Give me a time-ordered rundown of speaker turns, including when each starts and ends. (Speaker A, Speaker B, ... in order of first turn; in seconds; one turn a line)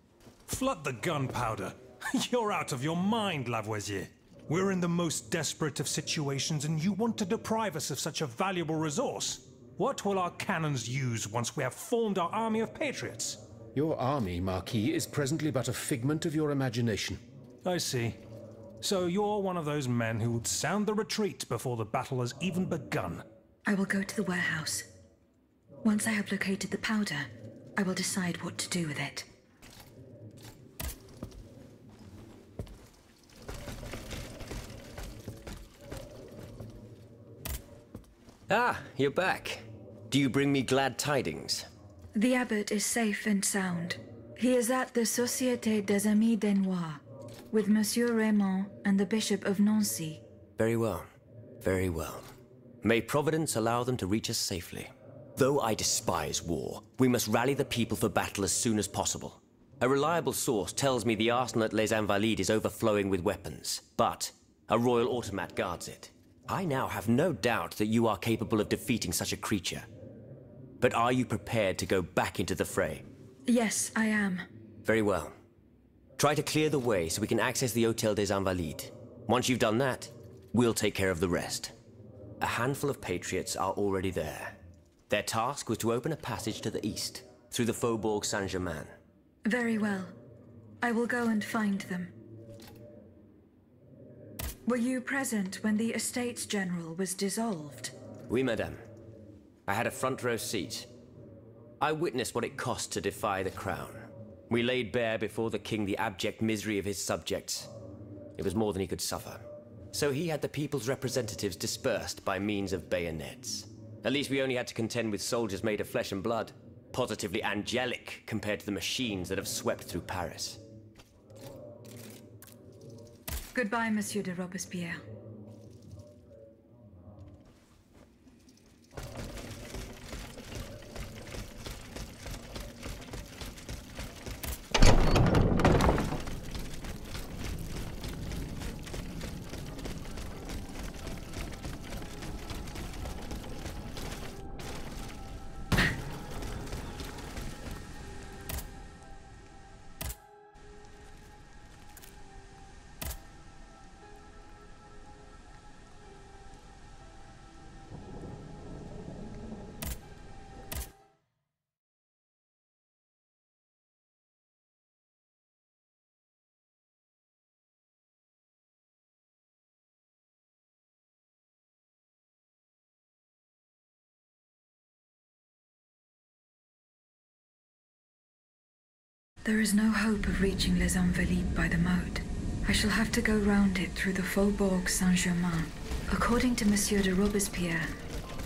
Speaker A: 0.5-13.4
Speaker B: 13.8-17.2
Speaker A: 17.6-18.2
Speaker A: 18.8-23.2
Speaker C: 23.7-24.9
Speaker C: 25.8-29.3
Speaker D: 38.5-41.7
Speaker C: 42.1-50.2
Speaker D: 50.6-51.1
Speaker D: 51.6-52.3
Speaker D: 52.8-69.9
Speaker D: 70.8-73.0
Speaker C: 73.5-74.5
Speaker D: 74.8-75.3
Speaker D: 76.2-81.7
Speaker D: 82.4-84.6
Speaker D: 85.1-88.9
Speaker C: 89.5-90.1
Speaker C: 90.8-92.2
Speaker C: 94.7-97.9
Speaker D: 98.3-98.8
Speaker D: 99.7-100.9
Speaker D: 101.8-107.7
Speaker D: 108.4-120.6
Speaker C: 123.5-125.0
Speaker C: 179.4-187.9